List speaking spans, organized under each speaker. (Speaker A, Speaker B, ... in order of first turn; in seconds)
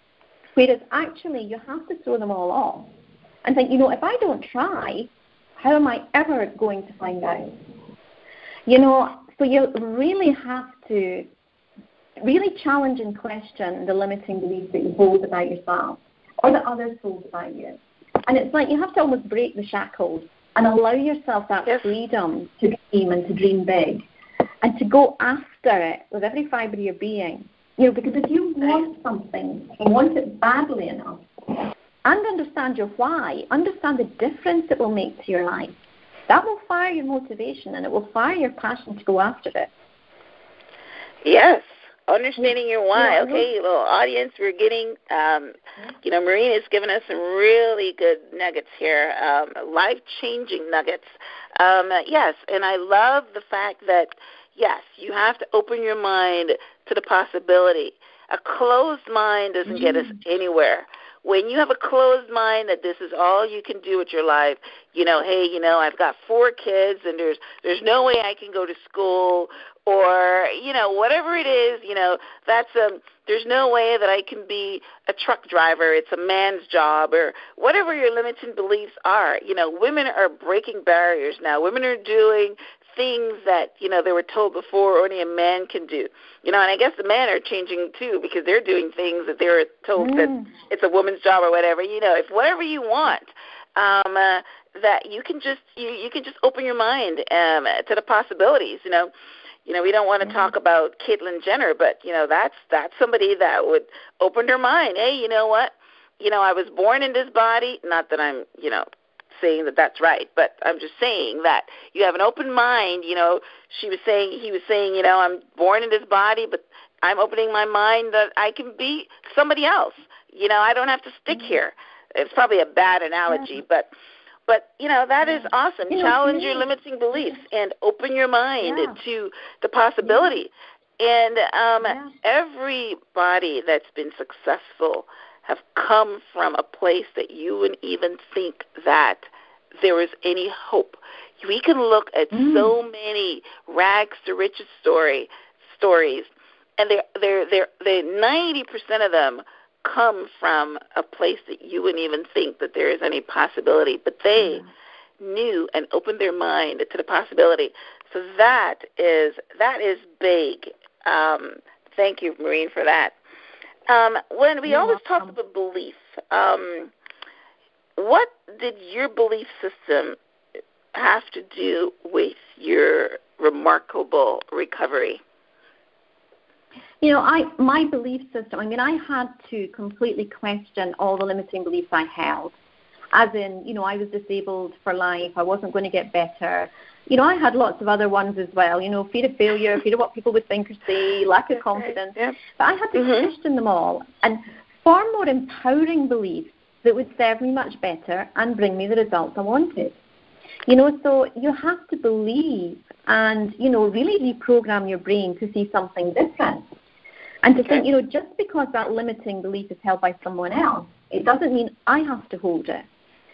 Speaker A: 0.6-2.9, 3.4-7.6, 8.7-11.3, 12.2-24.0, 24.6-35.8, 36.3-39.7, 42.4-43.5, 59.7-60.2, 90.0-90.5, 100.2-100.5, 125.2-126.7, 128.6-129.0, 130.0-130.3, 131.8-132.1, 142.3-142.8, 154.4-154.7, 164.7-165.4, 177.0-182.5, 183.1-200.0, 200.7-206.7, 207.4-212.9
Speaker B: 41.2-99.1, 99.7-123.9, 124.5-139.3, 139.8-154.6, 155.2-163.2, 163.9-166.9, 168.0-170.2, 170.9-175.2, 192.9-193.3